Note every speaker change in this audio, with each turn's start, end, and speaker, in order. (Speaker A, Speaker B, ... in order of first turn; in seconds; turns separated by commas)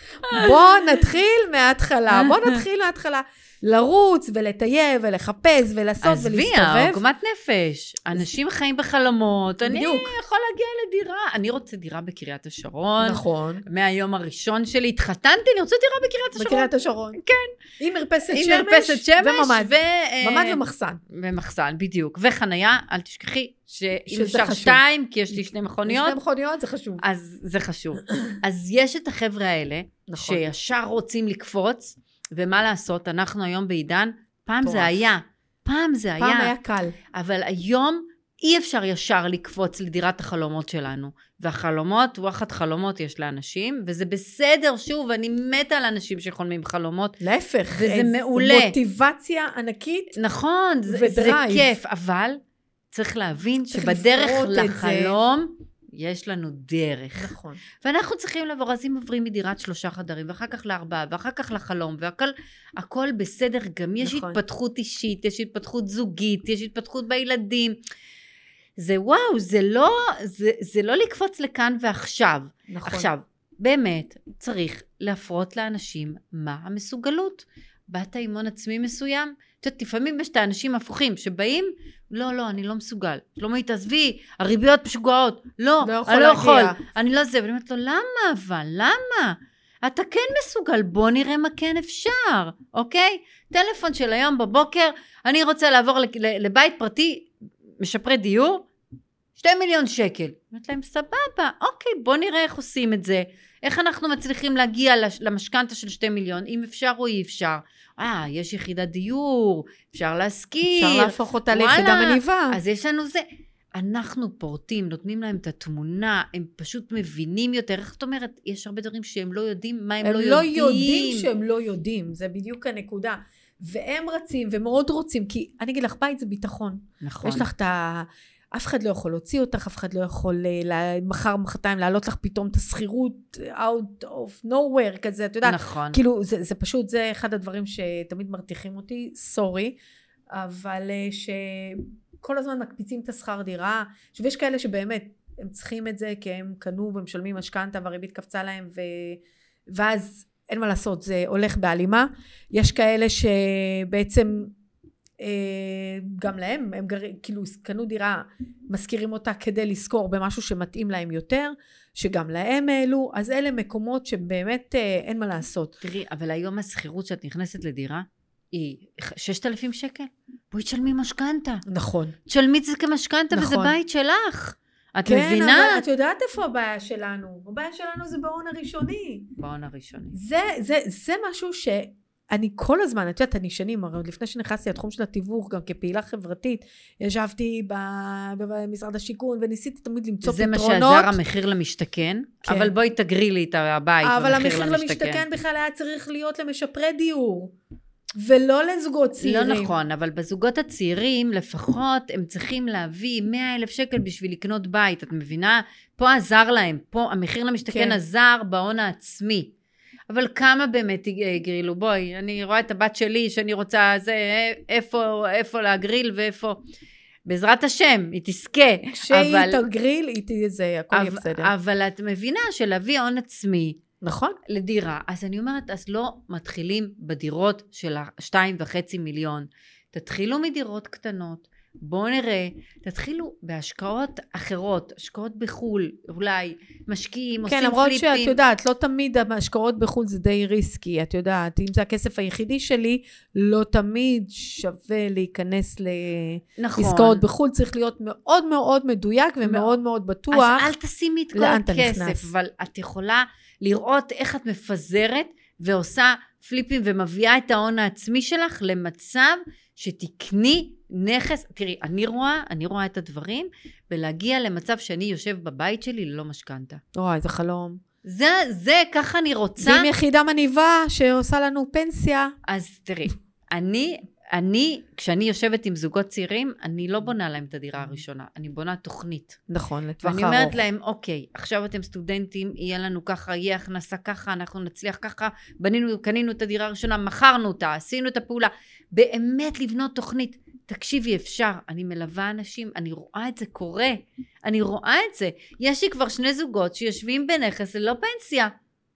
Speaker A: 0.3-7.0, Speaker B: 0.3-0.5, Speaker B: 2.1-2.6, Speaker B: 6.0-17.6, Speaker A: 9.6-10.1, Speaker A: 13.0-13.6, Speaker A: 16.4-17.2, Speaker A: 17.8-21.0, Speaker B: 18.3-26.2, Speaker A: 24.1-27.0, Speaker B: 27.0-36.5, Speaker A: 30.1-30.4, Speaker A: 34.6-35.0, Speaker A: 36.2-37.0, Speaker B: 37.1-47.2, Speaker A: 47.2-50.1, Speaker B: 47.7-48.8, Speaker B: 50.1-52.4, Speaker A: 50.9-51.7, Speaker B: 52.9-67.8, Speaker A: 53.7-55.1, Speaker A: 57.1-57.6, Speaker A: 64.0-64.4, Speaker B: 68.8-98.7, Speaker A: 72.7-73.1, Speaker A: 85.8-86.8, Speaker B: 99.4-121.3, Speaker A: 110.7-112.6, Speaker A: 120.0-139.8, Speaker B: 127.0-127.5, Speaker B: 135.4-136.0, Speaker A: 140.3-154.5, Speaker A: 155.2-165.8, Speaker B: 165.8-171.6, Speaker A: 171.7-172.2, Speaker B: 172.3-175.8, Speaker A: 173.3-173.7, Speaker A: 175.0-179.3, Speaker B: 179.4-180.2, Speaker A: 180.1-191.2, Speaker B: 190.2-195.2, Speaker A: 192.4-192.7, Speaker A: 194.0-197.5, Speaker A: 198.2-199.7, Speaker B: 199.2-209.5, Speaker A: 207.7-208.0, Speaker B: 210.1-216.6, Speaker B: 217.2-219.6, Speaker A: 219.0-221.5, Speaker B: 220.9-223.8, Speaker A: 224.0-224.4, Speaker B: 224.5-238.4, Speaker A: 237.4-250.7, Speaker B: 246.6-247.2, Speaker B: 249.4-249.7, Speaker B: 250.3-266.8, Speaker A: 251.3-252.3, Speaker A: 266.9-267.8, Speaker B: 268.0-269.9, Speaker A: 269.6-272.3, Speaker B: 272.5-279.4, Speaker A: 279.5-280.6, Speaker B: 280.0-298.5